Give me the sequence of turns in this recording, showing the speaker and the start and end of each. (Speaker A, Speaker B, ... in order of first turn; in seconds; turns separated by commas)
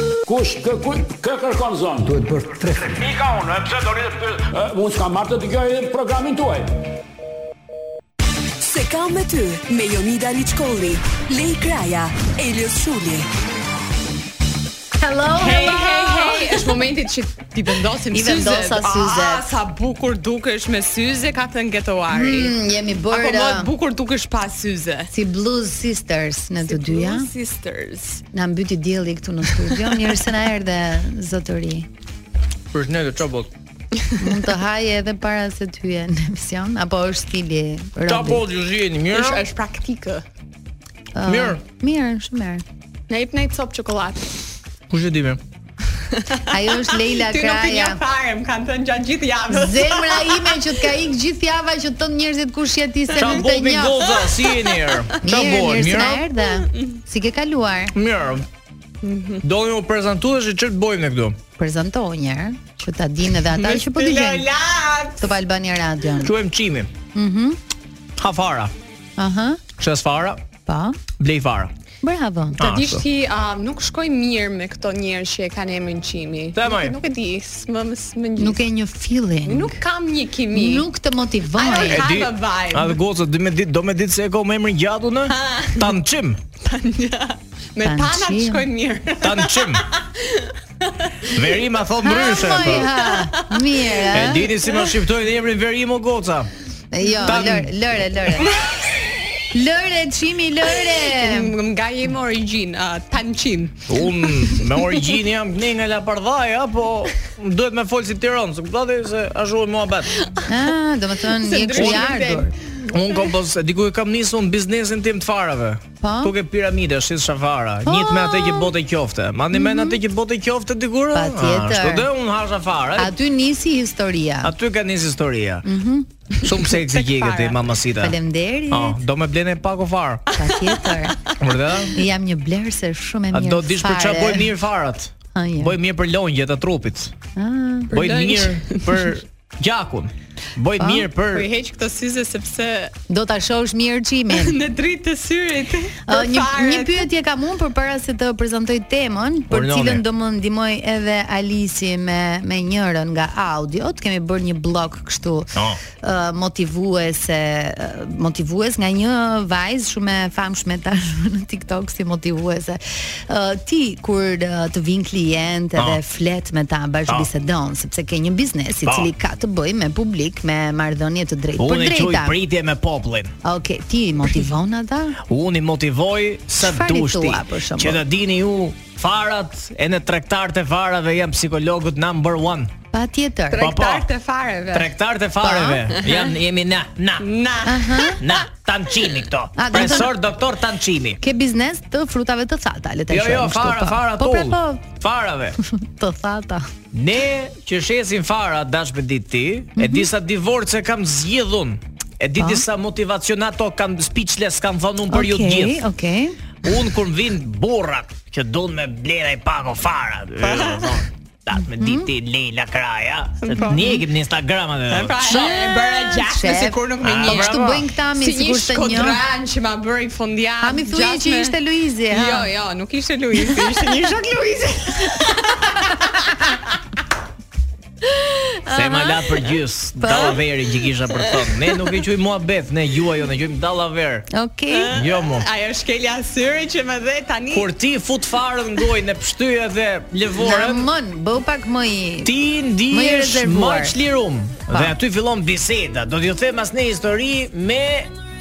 Speaker A: 0.2-6.7, Speaker B: 8.6-13.3, Speaker C: 15.0-16.8, Speaker D: 15.4-22.5, Speaker C: 18.1-19.5, Speaker C: 22.1-23.7, Speaker D: 23.1-25.1, Speaker C: 25.1-27.3, Speaker D: 26.6-28.2, Speaker C: 28.3-31.9, Speaker E: 32.7-33.5, Speaker C: 34.2-38.4, Speaker E: 38.0-39.5, Speaker D: 39.1-40.2, Speaker C: 41.1-42.6, Speaker E: 41.2-41.6, Speaker D: 43.1-44.3, Speaker E: 44.9-45.4, Speaker D: 46.1-50.9, Speaker C: 46.5-48.0, Speaker C: 49.5-54.1, Speaker E: 53.2-56.2, Speaker D: 54.1-54.8, Speaker C: 55.2-57.9, Speaker D: 56.5-57.0, Speaker E: 57.9-58.5, Speaker D: 59.0-59.4, Speaker E: 59.4-61.4, Speaker C: 61.6-64.5, Speaker D: 63.4-65.2, Speaker C: 65.2-66.3, Speaker E: 66.2-66.9, Speaker C: 67.1-67.6, Speaker E: 68.2-68.7, Speaker C: 69.2-69.6, Speaker E: 69.8-70.4, Speaker C: 70.7-71.0, Speaker E: 71.2-71.7, Speaker C: 72.0-72.6, Speaker E: 72.6-73.0, Speaker D: 72.6-78.6, Speaker E: 76.5-77.0, Speaker C: 78.4-79.8, Speaker D: 79.5-80.9, Speaker C: 80.5-82.0, Speaker D: 81.6-83.0, Speaker E: 81.7-86.4, Speaker D: 85.3-85.9, Speaker D: 86.6-91.6, Speaker C: 87.8-88.6, Speaker E: 89.2-89.9, Speaker E: 91.3-92.9, Speaker C: 92.0-94.5, Speaker D: 93.0-94.1, Speaker E: 94.1-96.5, Speaker C: 96.9-98.5, Speaker E: 97.2-97.7, Speaker C: 99.5-101.5, Speaker D: 100.9-104.5, Speaker E: 103.9-110.1, Speaker C: 110.5-112.5, Speaker D: 111.3-112.5, Speaker E: 111.7-112.1, Speaker E: 112.9-123.1, Speaker C: 116.0-116.3, Speaker C: 117.8-118.7, Speaker C: 119.5-120.0, Speaker C: 121.1-122.1, Speaker C: 123.0-124.5, Speaker E: 124.4-125.7, Speaker C: 125.6-126.1, Speaker E: 126.4-128.2, Speaker D: 126.7-127.7, Speaker C: 128.0-129.0, Speaker E: 128.7-130.3, Speaker C: 130.3-131.2, Speaker D: 130.4-131.3, Speaker E: 131.4-132.0, Speaker C: 131.9-134.5, Speaker E: 133.3-137.1, Speaker C: 135.3-135.8, Speaker C: 137.3-138.0, Speaker E: 137.9-141.5, Speaker D: 137.9-139.0, Speaker C: 140.8-141.1, Speaker D: 141.3-142.9, Speaker C: 143.1-144.6, Speaker D: 144.3-147.1, Speaker C: 146.1-172.4, Speaker E: 149.5-150.0, Speaker E: 155.5-155.8, Speaker E: 165.8-166.0, Speaker E: 168.8-169.1, Speaker E: 171.6-173.3, Speaker C: 173.4-175.2, Speaker E: 175.2-182.7, Speaker C: 176.6-178.0, Speaker C: 182.9-183.6, Speaker D: 183.5-184.9, Speaker E: 183.6-184.1, Speaker E: 184.7-187.3, Speaker C: 185.4-185.9, Speaker D: 186.0-186.3, Speaker D: 187.2-188.4, Speaker C: 187.7-188.2, Speaker E: 188.2-191.2, Speaker C: 189.6-190.1, Speaker C: 191.2-194.8, Speaker E: 193.1-195.6, Speaker C: 195.7-196.7, Speaker E: 196.9-205.8, Speaker C: 199.8-200.1, Speaker C: 205.1-206.4, Speaker E: 206.6-215.8, Speaker D: 210.4-211.1, Speaker C: 211.6-212.1, Speaker D: 213.4-213.8, Speaker C: 213.6-214.0, Speaker D: 214.9-221.6, Speaker C: 216.1-219.2, Speaker E: 217.0-217.8, Speaker C: 220.6-222.5, Speaker D: 222.1-226.4, Speaker C: 228.2-229.2, Speaker E: 228.7-234.3, Speaker C: 230.0-230.4, Speaker C: 234.3-234.9, Speaker D: 234.7-237.7, Speaker E: 234.9-235.4, Speaker E: 237.5-240.9, Speaker C: 240.4-242.3, Speaker E: 242.2-248.1, Speaker C: 242.9-243.9, Speaker C: 244.7-244.9